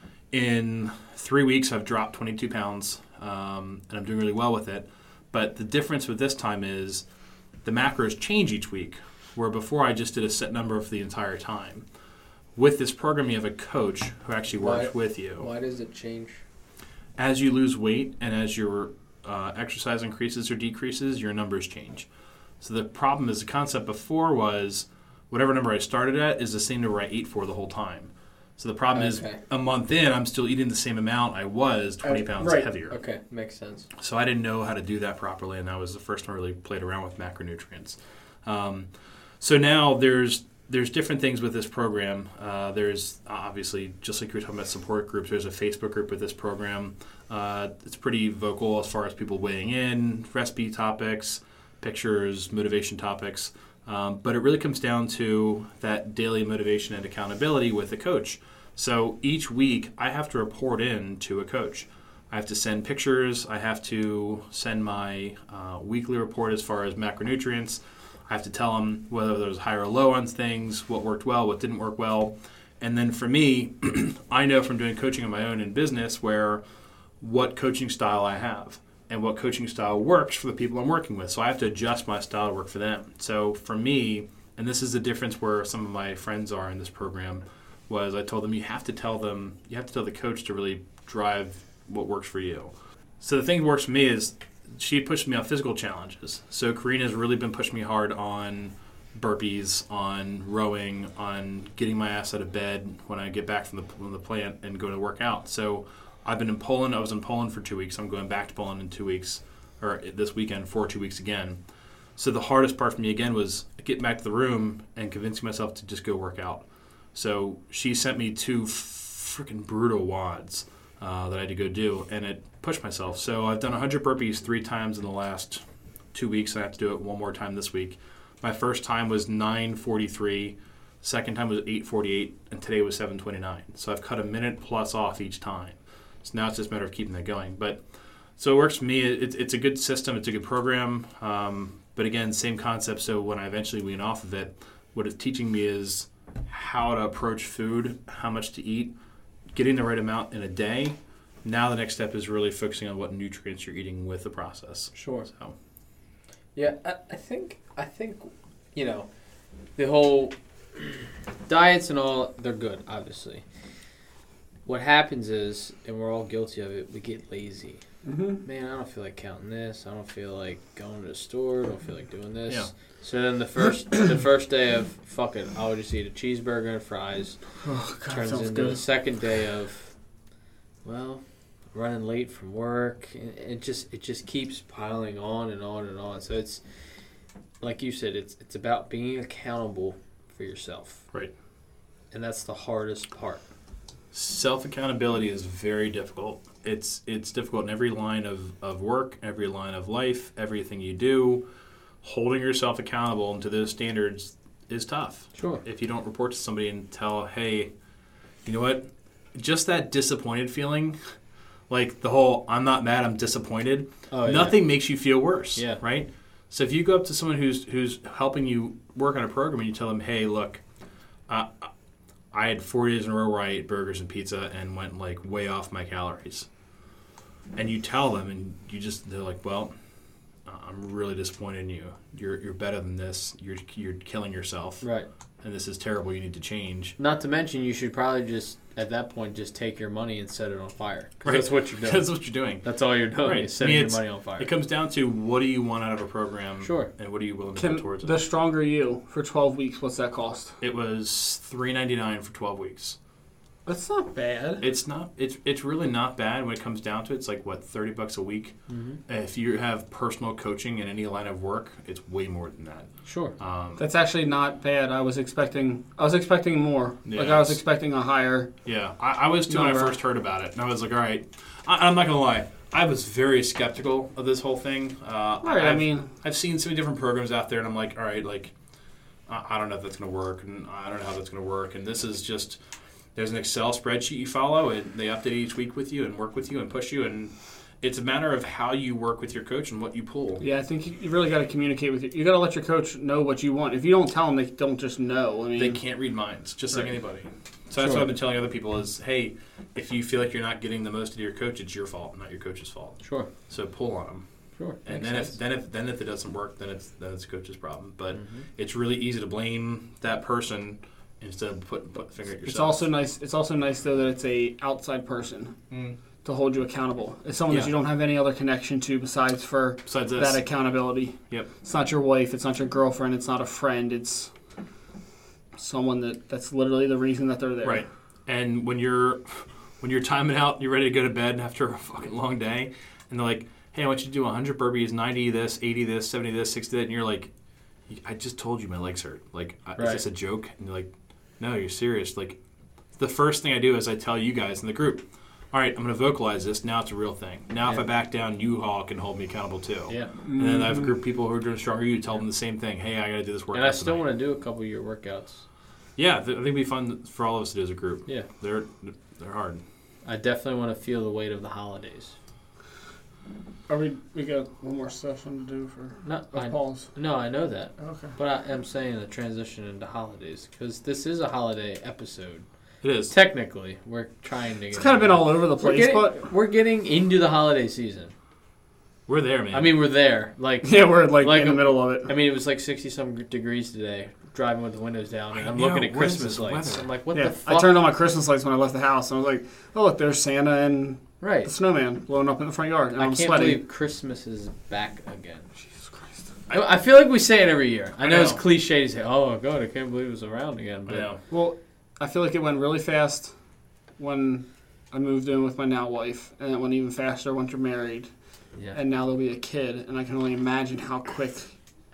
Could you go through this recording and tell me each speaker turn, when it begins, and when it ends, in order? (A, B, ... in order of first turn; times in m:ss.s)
0:00.3-0:07.0 A
0:07.6-0:11.8 A
0:12.6-0:15.5 A
0:14.6-0:16.4 B
0:17.2-0:22.1 A
0:22.6-0:33.0 A
0:28.9-0:29.4 B
0:32.0-0:32.7 C
0:32.9-0:33.9 B
0:34.0-0:38.9 A
0:39.4-1:16.6 A
1:17.2-1:51.6 A
1:52.2-2:05.6 A
2:06.1-2:17.8 A
2:18.4-2:28.9 A
2:29.5-2:35.6 A
2:34.9-2:35.3 B
2:36.6-2:39.1 B
2:39.8-2:43.4 B
2:44.6-2:47.8 B
2:48.0-2:48.4 C
2:48.4-2:57.4 B
2:57.6-2:58.8 C
2:58.1-2:59.9 B
3:00.8-3:06.6 B
3:07.6-3:11.0 B
3:12.1-3:13.4 B
3:14.1-3:21.4 A
3:22.0-3:27.7 A
3:25.4-3:25.6 B
3:28.4-3:31.0 A
3:31.7-3:40.6 A
3:34.1-3:34.6 B
3:41.3-3:41.7 A
3:42.3-3:46.4 A
3:47.6-3:49.7 A
3:50.4-3:54.8 A
3:54.8-3:55.1 B
3:55.4-3:57.0 A
3:57.0-4:02.1 B
4:01.2-4:02.6 A
4:02.6-4:04.5 B
4:03.2-4:08.1 A
4:06.6-4:06.9 B
4:07.6-4:10.5 C
4:10.6-4:13.0 A
4:13.6-4:14.6 C
4:14.6-4:18.6 A
4:18.7-4:19.0 B
4:19.1-4:23.8 A
4:23.0-4:23.3 B
4:23.8-4:28.5 C
4:27.0-4:27.6 A
4:28.6-4:38.5 A
4:29.5-4:29.9 C
4:35.4-4:36.1 C
4:39.3-4:42.6 A
4:43.1-4:50.4 A
4:50.4-4:55.8 C
4:55.6-5:04.2 A
4:57.8-4:58.1 B
5:03.0-5:03.3 B
5:04.6-5:05.3 B
5:04.8-5:12.8 A
5:08.2-5:08.4 B
5:12.4-5:15.6 C
5:15.7-5:16.0 A
5:16.2-5:24.3 C
5:19.9-5:20.4 A
5:25.6-5:27.8 C
5:27.6-5:37.3 A
5:37.9-5:42.4 A
5:43.0-5:54.0 A
5:50.2-5:50.9 C
5:53.5-5:55.4 B
5:56.0-5:59.6 A
6:00.0-6:02.1 B
6:03.7-6:06.9 C
6:06.0-6:12.4 B
6:07.8-6:08.1 C
6:12.8-6:13.1 A
6:13.1-6:18.1 B
6:14.7-6:16.2 C
6:19.1-6:19.7 A
6:19.5-6:27.8 B
6:20.6-6:22.1 C
6:25.3-6:26.8 A
6:27.1-6:33.6 C
6:31.2-6:31.5 B
6:33.0-6:35.4 B
6:35.8-6:36.2 C
6:36.5-6:41.1 B
6:38.0-6:38.4 A
6:40.9-6:41.2 A
6:41.3-6:43.3 C
6:44.0-6:48.1 C
6:48.7-6:51.5 C